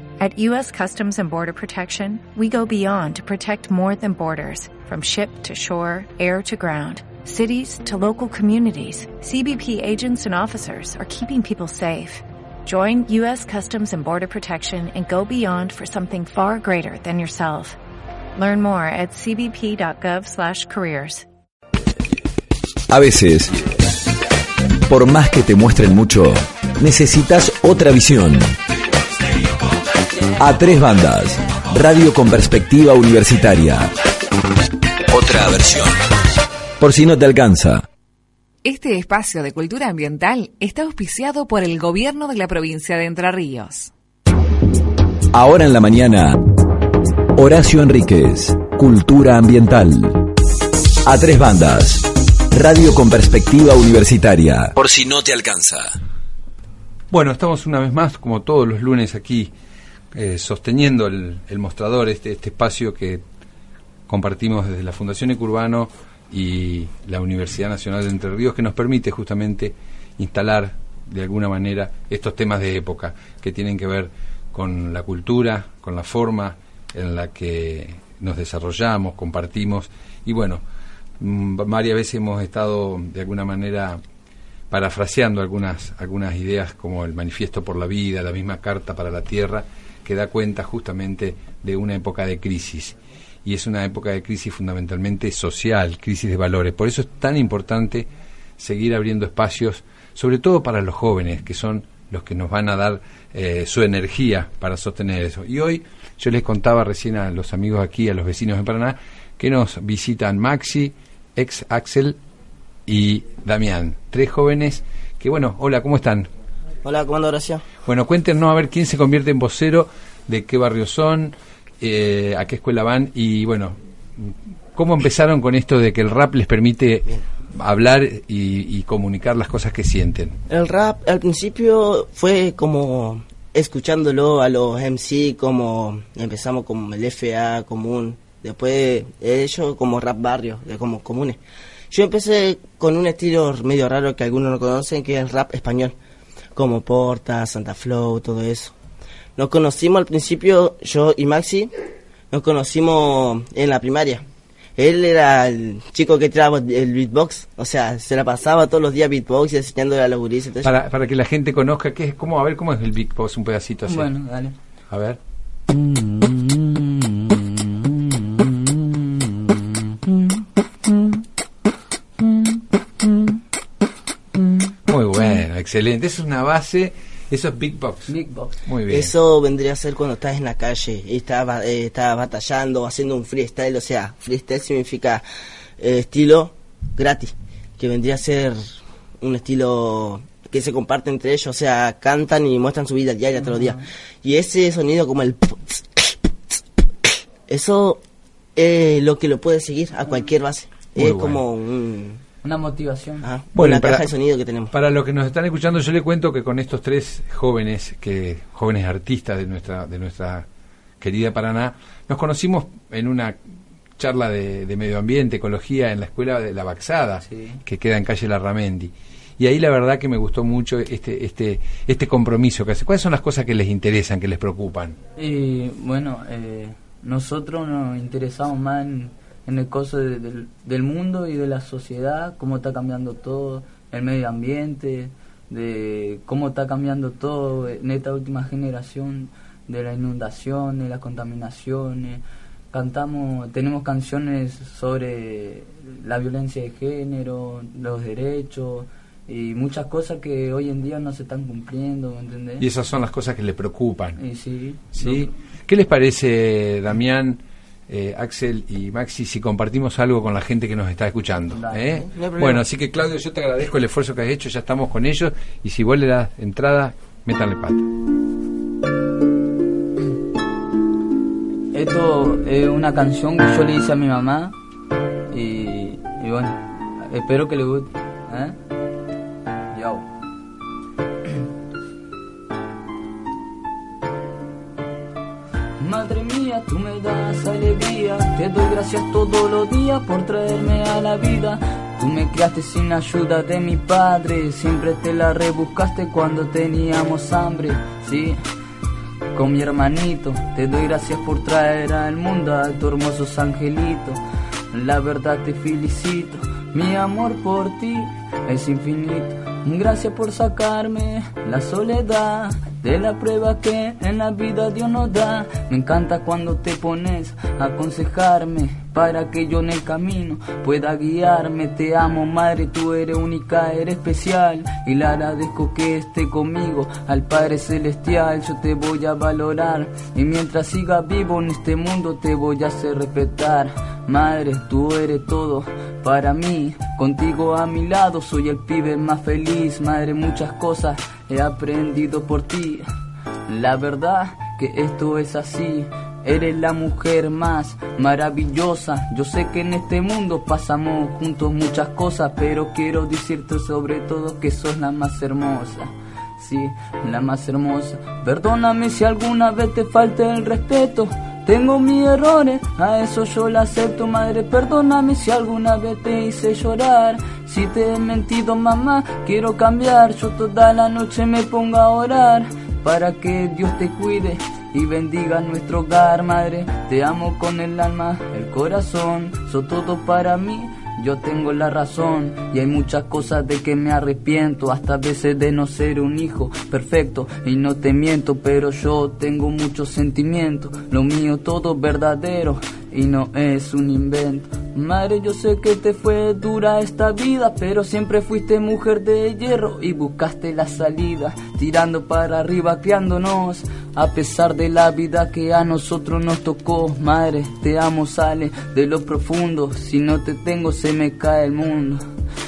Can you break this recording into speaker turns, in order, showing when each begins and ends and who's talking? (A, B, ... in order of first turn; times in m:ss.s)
0:00.2-0:17.8 A
0:18.4-0:21.2 A
0:22.9-0:23.6 B
0:24.9-0:28.5 B
0:30.4-0:33.9 B
0:35.1-0:35.9 B
0:36.8-0:37.8 B
0:38.6-0:43.9 C
0:45.3-0:46.4 B
0:47.4-0:50.2 B
0:51.0-0:55.8 B
0:57.1-0:59.5 D
1:00.1-1:03.2 D
1:04.1-1:20.6 D
1:21.2-1:24.0 D
1:24.7-1:52.2 D
1:52.9-1:56.3 D
1:56.8-1:57.7 E
1:57.8-2:10.4 D
2:10.5-2:21.4 E
2:21.9-2:25.9 E
2:26.6-2:28.7 E
2:29.4-2:31.7 E
2:32.3-2:34.2 E
2:34.8-2:40.7 E
2:40.6-2:44.1 D
2:43.8-2:44.6 F
2:44.9-2:45.2 D
2:45.7-2:50.3 F
2:54.8-2:58.1 D
2:58.1-2:58.6 F
2:58.6-2:59.1 D
2:58.9-3:05.2 E
3:05.8-3:18.0 E
3:13.5-3:13.8 F
3:18.6-3:22.2 E
3:21.0-3:21.4 D
3:22.4-3:23.3 F
3:23.2-3:24.7 E
3:23.5-3:24.1 D
3:24.7-3:30.4 D
3:31.0-3:33.4 D
3:34.0-3:45.0 D
3:37.3-3:37.6 F
3:45.2-4:12.6 F
4:12.6-4:14.2 D
4:14.2-4:15.3 F
4:14.9-4:27.9 D
4:21.5-4:22.0 F
4:22.0-4:22.6 E
4:31.7-4:34.5 F
4:35.3-4:38.6 F
4:39.7-4:40.1 F
4:45.8-4:58.4 F
4:59.3-5:04.2 F
5:04.7-5:42.8 F
5:43.5-6:52.0 F